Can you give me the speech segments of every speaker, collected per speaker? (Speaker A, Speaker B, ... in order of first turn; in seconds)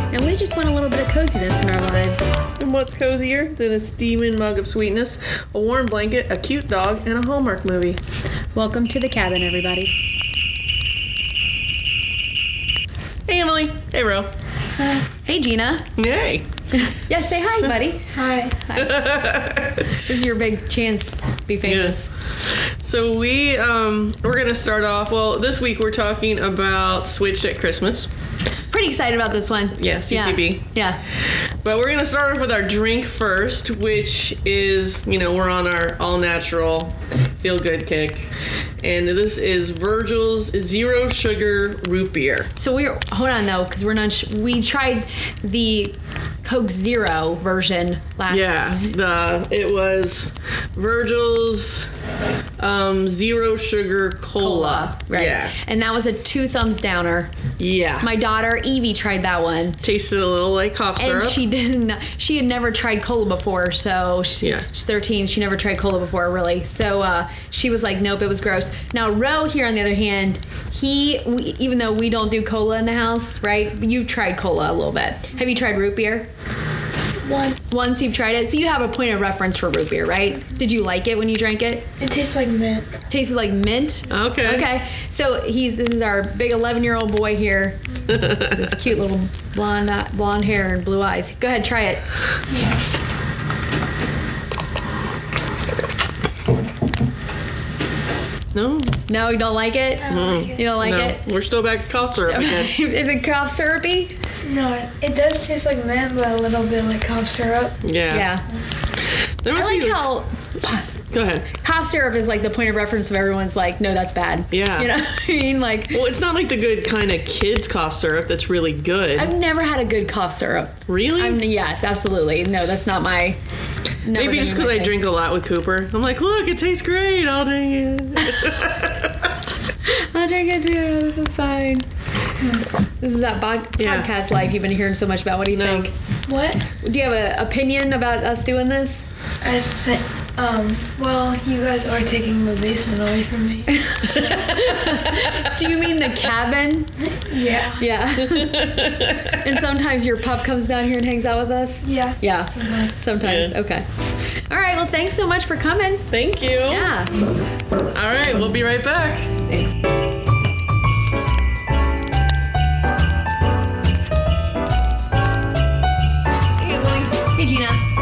Speaker A: 0.1-2.4, 8.6-9.9, 15.2-15.9, 16.7-19.1, 20.0-22.1, 28.7-31.0, 42.6-48.7, 54.4-57.3, 58.0-59.8, 61.0-76.3, 77.7-81.9, 83.1-92.0, 99.1-101.2, 102.3-104.2, 108.1-108.5, 109.5-110.9, 111.6-116.0, 119.2-123.4, 124.0-124.9, 128.2-128.5, 129.8-131.9, 133.0-135.9, 136.8-139.1, 143.7-146.9, 147.8-153.9, 154.5-156.1, 156.7-157.1, 159.5-159.7, 167.3-167.8
Speaker B: 2.6-8.0, 13.3-14.3, 16.0-16.5, 17.1-17.8, 18.8-20.1, 21.6-28.1, 29.8-30.6, 31.6-42.5, 48.3-51.9, 52.6-55.5, 57.6-58.1, 59.8-61.4, 64.4-64.7, 84.1-84.7, 88.1-88.7, 98.5-99.0, 100.1-102.7, 107.8-108.3, 109.4-111.5, 114.5-114.9, 115.9-119.3, 120.9-121.4, 124.1-129.3, 133.8-134.1, 135.5-135.9, 144.1-145.7, 148.2-149.5, 153.2-153.5, 156.1-156.9, 157.9-159.3, 166.6-167.2
Speaker C: 18.1-18.6, 77.2-77.7, 82.0-83.0, 100.1-100.6, 104.5-107.8, 136.3-136.6, 139.4-144.6, 147.0-147.8, 151.8-153.0